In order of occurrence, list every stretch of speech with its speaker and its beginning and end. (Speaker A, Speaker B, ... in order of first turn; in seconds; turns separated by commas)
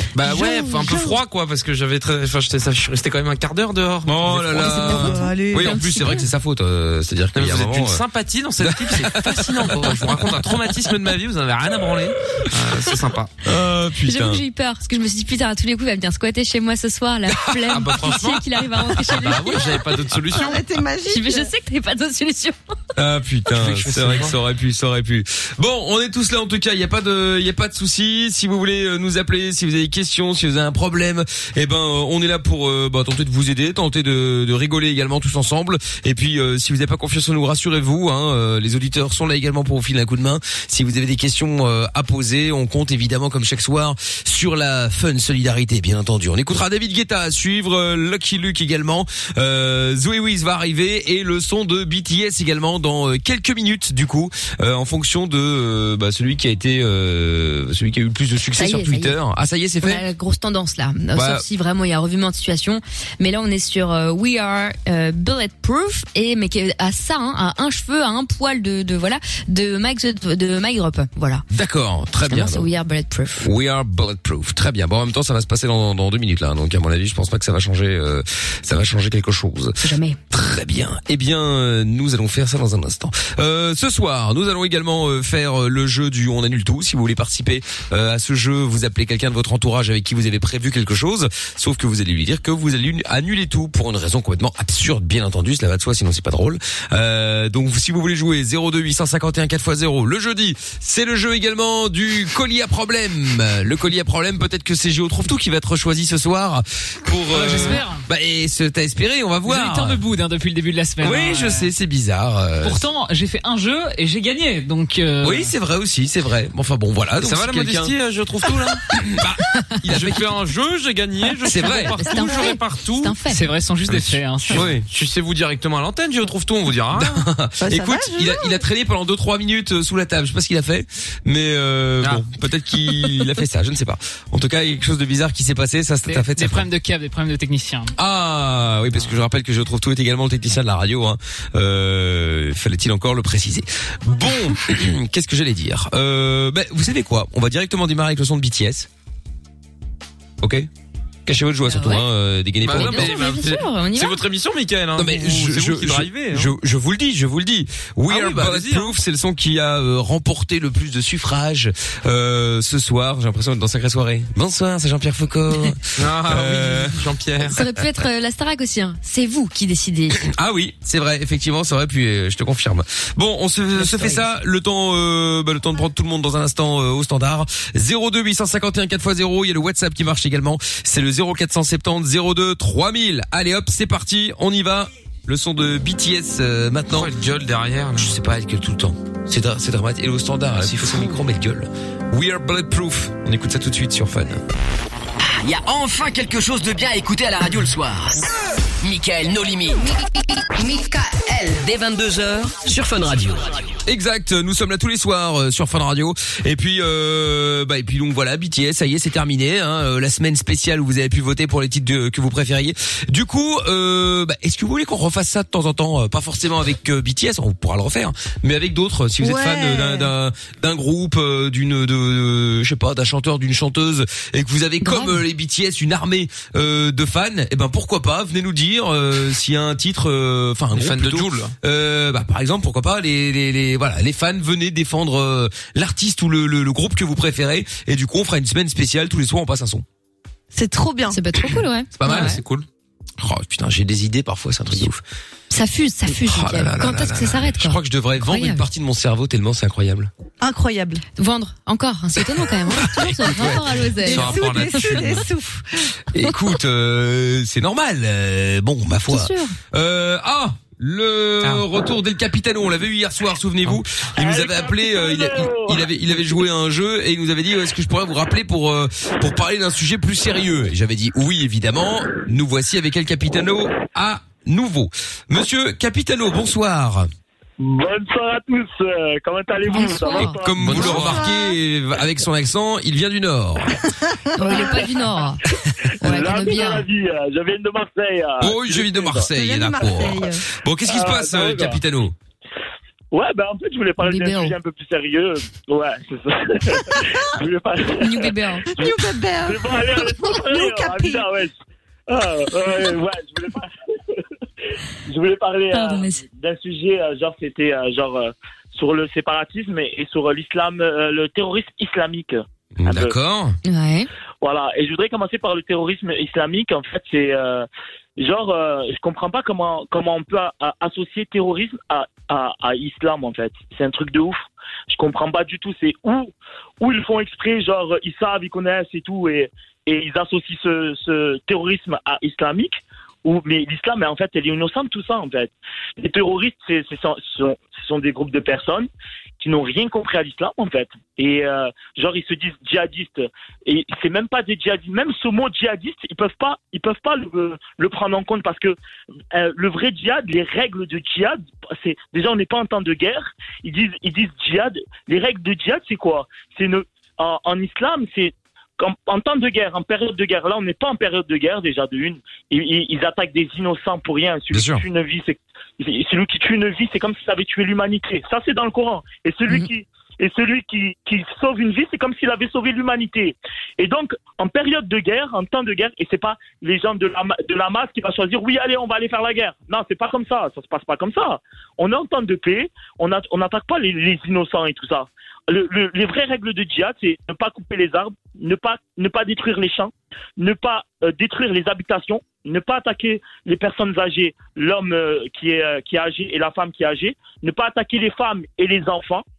Speaker A: 0.1-5.0, Speaker B: 4.0-8.0, Speaker C: 4.5-6.2, Speaker D: 4.9-6.0, Speaker A: 7.3-13.3, Speaker B: 8.6-10.5, Speaker B: 13.4-14.4, Speaker D: 14.0-19.8, Speaker A: 17.6-20.6, Speaker C: 20.3-21.5, Speaker D: 21.0-22.6, Speaker B: 22.9-60.0, Speaker A: 23.5-24.4, Speaker D: 58.6-59.2, Speaker D: 59.8-71.4, Speaker B: 61.1-61.4, Speaker B: 71.5-72.7, Speaker D: 72.3-73.5, Speaker B: 73.4-79.8, Speaker D: 79.8-80.2, Speaker B: 80.3-110.0, Speaker E: 107.3-108.0, Speaker E: 109.4-111.7, Speaker B: 111.0-112.8, Speaker E: 112.6-115.5, Speaker B: 115.2-117.9, Speaker A: 117.2-118.9, Speaker B: 118.7-120.4, Speaker A: 119.9-123.1, Speaker B: 121.4-122.0, Speaker D: 121.5-123.4, Speaker E: 123.3-124.7, Speaker A: 123.9-127.2, Speaker B: 124.5-124.8, Speaker B: 126.9-136.7, Speaker C: 127.6-128.6, Speaker E: 136.1-137.9, Speaker B: 137.9-148.9, Speaker B: 150.4-150.7, Speaker B: 151.2-153.3, Speaker D: 151.7-152.1, Speaker A: 152.6-156.5, Speaker D: 152.7-154.2, Speaker B: 154.9-167.0, Speaker A: 158.1-158.9, Speaker A: 166.0-167.6, Speaker D: 167.4-170.2, Speaker B: 170.2-187.1, Speaker D: 173.7-174.2, Speaker A: 186.9-188.2, Speaker B: 187.9-194.4, Speaker A: 190.7-191.1, Speaker F: 195.2-198.2, Speaker F: 198.8-199.9, Speaker F: 201.4-203.6, Speaker B: 203.8-239.8, Speaker C: 219.2-220.1, Speaker D: 224.8-225.2, Speaker A: 230.7-231.5, Speaker C: 240.5-241.5, Speaker D: 241.1-242.4, Speaker B: 242.0-242.4, Speaker A: 242.0-242.7, Speaker B: 243.2-245.0, Speaker D: 245.5-248.6, Speaker B: 246.1-250.1, Speaker C: 250.4-251.0, Speaker D: 251.2-254.5, Speaker B: 252.8-253.7, Speaker C: 254.0-255.9, Speaker A: 254.1-255.3, Speaker B: 254.8-255.2, Speaker B: 256.1-277.1, Speaker D: 259.1-259.5, Speaker G: 264.2-265.8, Speaker G: 277.6-280.9, Speaker D: 279.7-280.8, Speaker B: 280.2-283.8, Speaker A: 280.6-281.2, Speaker C: 280.8-281.5, Speaker C: 284.3-284.9, Speaker D: 284.4-285.4, Speaker G: 284.4-284.8, Speaker D: 286.0-286.9, Speaker G: 286.0-289.3, Speaker B: 288.4-292.1, Speaker C: 289.3-290.4, Speaker G: 289.8-290.1, Speaker G: 290.9-291.8, Speaker G: 293.1-298.9, Speaker D: 294.0-294.6, Speaker D: 298.0-298.7, Speaker C: 298.7-301.2, Speaker G: 299.4-301.5, Speaker G: 302.1-304.2, Speaker G: 305.1-313.1, Speaker D: 305.7-306.2, Speaker B: 312.8-313.6, Speaker D: 313.6-314.1, Speaker G: 314.4-338.9, Speaker G: 339.4-348.8, Speaker G: 349.3-399.2, Speaker B: 364.5-364.8